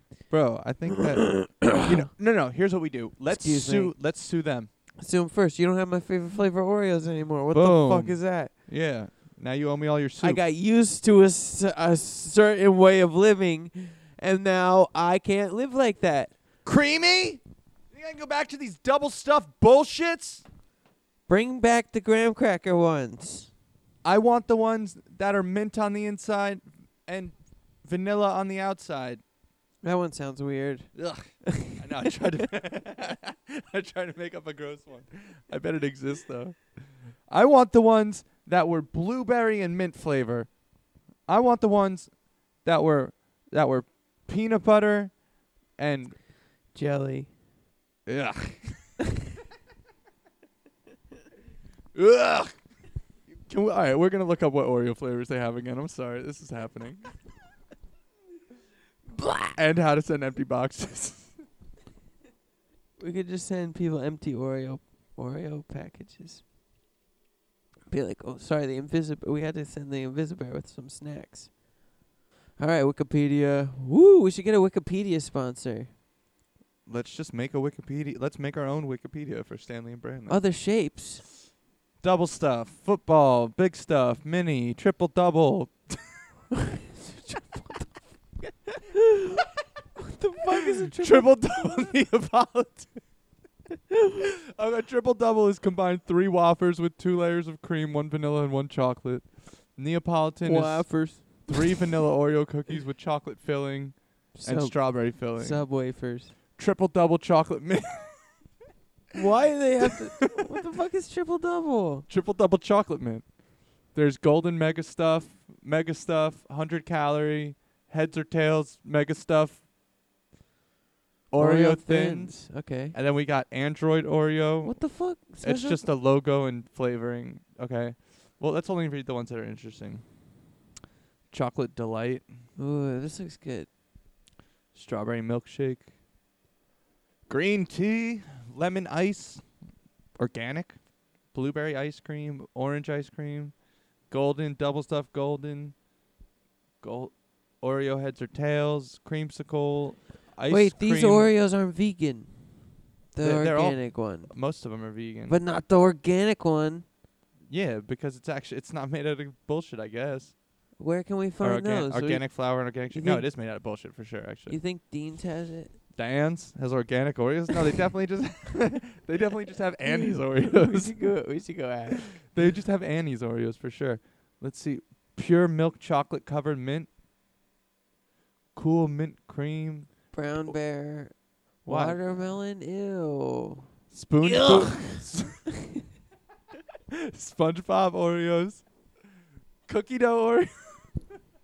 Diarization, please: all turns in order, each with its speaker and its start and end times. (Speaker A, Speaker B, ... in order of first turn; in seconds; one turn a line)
Speaker A: 0.3-4.7
Speaker B: 1.3-2.1
Speaker B: 3.3-4.0
Speaker B: 5.0-8.5
Speaker A: 7.5-10.4
Speaker B: 10.2-16.4
Speaker A: 16.6-20.5
Speaker B: 21.3-23.5
Speaker A: 24.0-29.2
Speaker B: 29.8-32.4
Speaker A: 30.9-40.5
Speaker A: 41.3-45.2
Speaker A: 45.8-46.2
Speaker B: 46.7-47.3
Speaker A: 48.1-48.9
Speaker A: 51.9-52.6
Speaker A: 53.3-57.1
Speaker B: 59.1-59.6
Speaker A: 59.6-61.4
Speaker B: 63.0-66.4
Speaker B: 67.9-71.6
Speaker B: 72.6-75.9
Speaker A: 76.9-80.4
Speaker B: 80.3-81.2
Speaker A: 82.0-86.3
Speaker B: 86.6-89.5
Speaker B: 90.0-91.6
Speaker A: 91.0-93.0
Speaker B: 93.9-94.2
Speaker A: 94.5-105.7
Speaker B: 100.5-101.7
Speaker B: 104.3-106.3
Speaker A: 106.6-108.4
Speaker B: 109.1-112.1
Speaker A: 112.1-119.7
Speaker A: 121.3-124.8
Speaker B: 121.4-123.0
Speaker B: 124.6-125.8
Speaker A: 125.4-130.0
Speaker A: 131.3-132.2
Speaker B: 132.6-133.7
Speaker A: 134.7-135.9
Speaker A: 137.3-139.5
Speaker A: 140.2-145.8
Speaker A: 146.8-151.3
Speaker B: 150.5-154.4
Speaker A: 153.2-155.4
Speaker B: 155.3-156.9
Speaker A: 157.5-160.4
Speaker B: 160.8-163.3
Speaker A: 161.4-164.6
Speaker B: 164.5-165.8
Speaker A: 165.9-170.9
Speaker B: 169.9-172.2
Speaker A: 172.1-176.9
Speaker A: 178.6-180.0
Speaker B: 180.1-183.7
Speaker A: 181.7-182.0
Speaker A: 183.9-185.4
Speaker B: 184.2-185.0
Speaker A: 186.9-188.6
Speaker A: 189.7-191.0